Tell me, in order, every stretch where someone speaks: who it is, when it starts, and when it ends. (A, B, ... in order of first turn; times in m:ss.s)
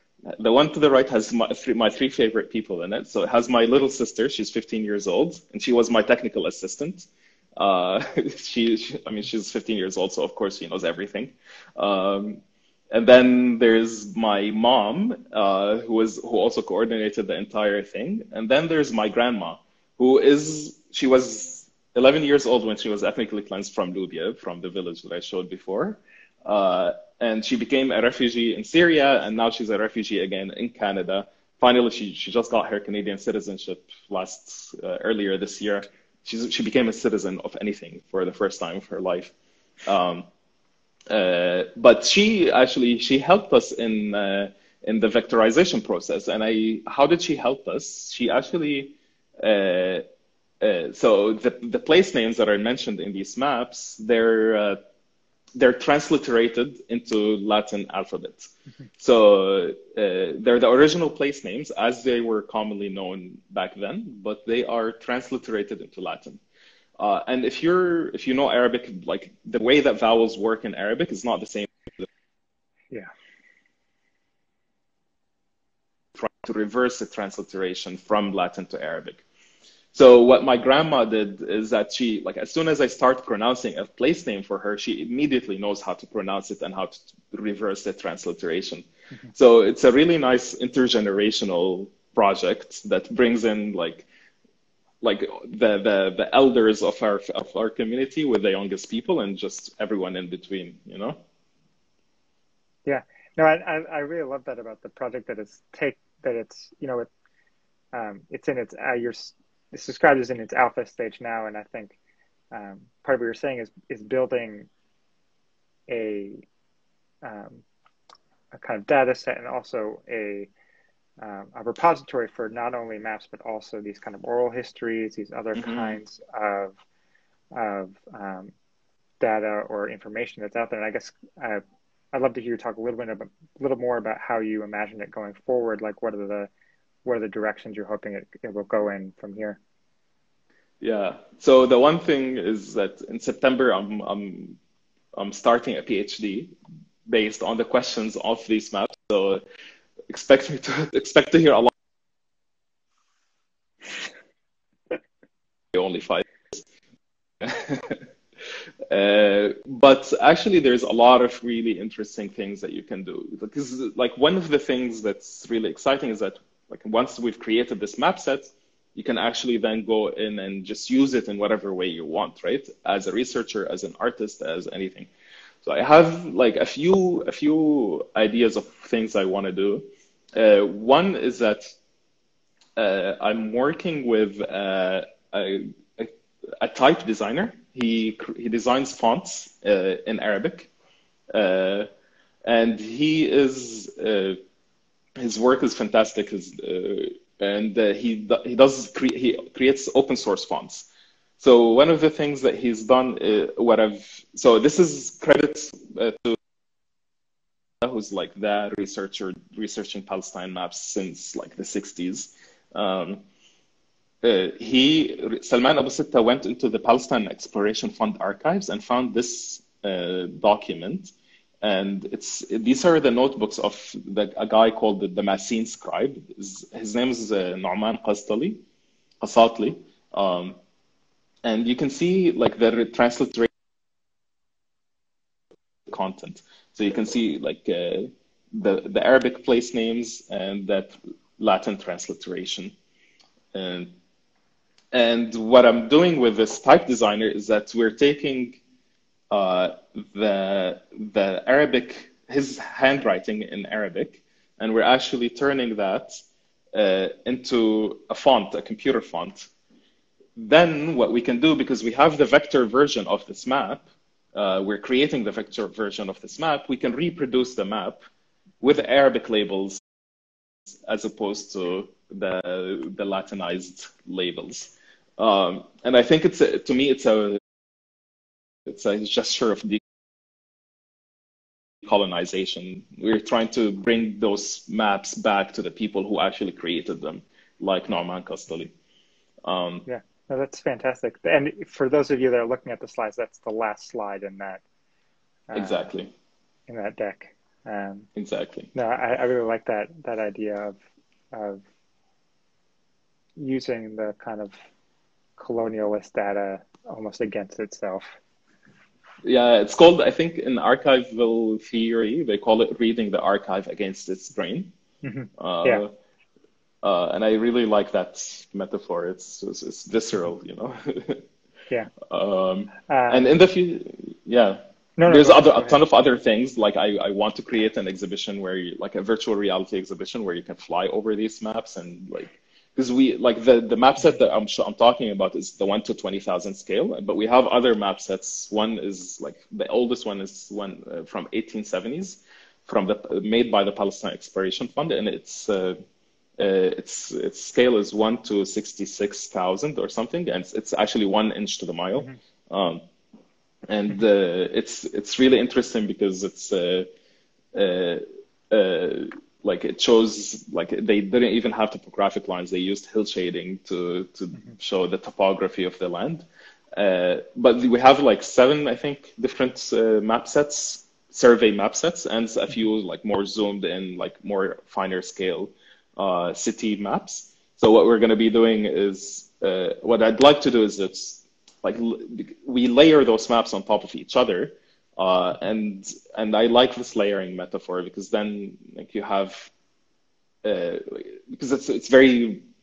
0:00.3-0:39.3 A
0:39.8-0:40.3 A
0:41.1-0:50.0 A
0:50.6-0:54.8 A
0:55.6-1:06.4 A
1:07.0-1:12.0 A
1:16.2-1:19.2 A
1:19.9-1:34.1 A
1:35.0-1:41.2 A
1:42.8-1:47.1 B
1:47.9-1:52.0 B
1:52.5-1:54.7 B
1:55.9-1:56.4 B
1:57.2-1:57.6 B
1:58.5-2:00.5 B
2:01.2-2:06.8 B
2:05.6-2:06.0 A
2:07.5-2:08.5 B
2:09.2-2:16.5 B
2:17.0-2:19.6 B
2:20.8-2:24.6 A
2:25.1-2:26.5 A
2:27.1-2:29.4 A
2:30.1-2:31.7 A
2:35.7-2:36.6 A
2:37.4-2:38.0 A
2:38.9-2:55.1 A
2:55.6-3:01.7 A
3:02.8-3:10.7 A
3:11.3-3:11.9 A
3:12.4-3:14.4 A
3:15.2-3:26.4 A
3:27.8-3:33.2 A
3:34.2-3:48.6 A
3:49.2-3:50.6 A
3:51.4-3:53.5 A
3:55.9-4:02.7 A
4:03.5-4:03.9 A
4:04.9-4:08.6 A
4:09.3-4:16.2 A
4:16.7-4:19.5 A
4:20.4-4:28.0 A
4:28.6-4:29.8 A
4:30.8-4:37.4 A
4:38.6-4:39.8 A
4:41.8-4:48.7 A
4:49.4-4:49.8 A
4:49.8-4:54.6 B
4:55.5-4:55.9 B
4:55.5-4:56.1 A
4:56.7-4:58.1 B
4:58.2-4:58.7 A
4:58.7-5:00.8 B
5:01.3-5:01.6 B
5:03.4-5:04.6 B
5:05.4-5:08.2 B
5:09.2-5:14.7 A
5:15.0-5:15.8 B
5:15.4-5:15.9 A
5:16.8-5:21.2 A
5:22.0-5:45.8 A
5:22.9-5:23.2 B
5:25.0-5:25.8 B
5:46.4-5:52.8 A
5:53.7-5:56.9 A
5:57.5-6:29.5 A
6:30.4-6:32.4 A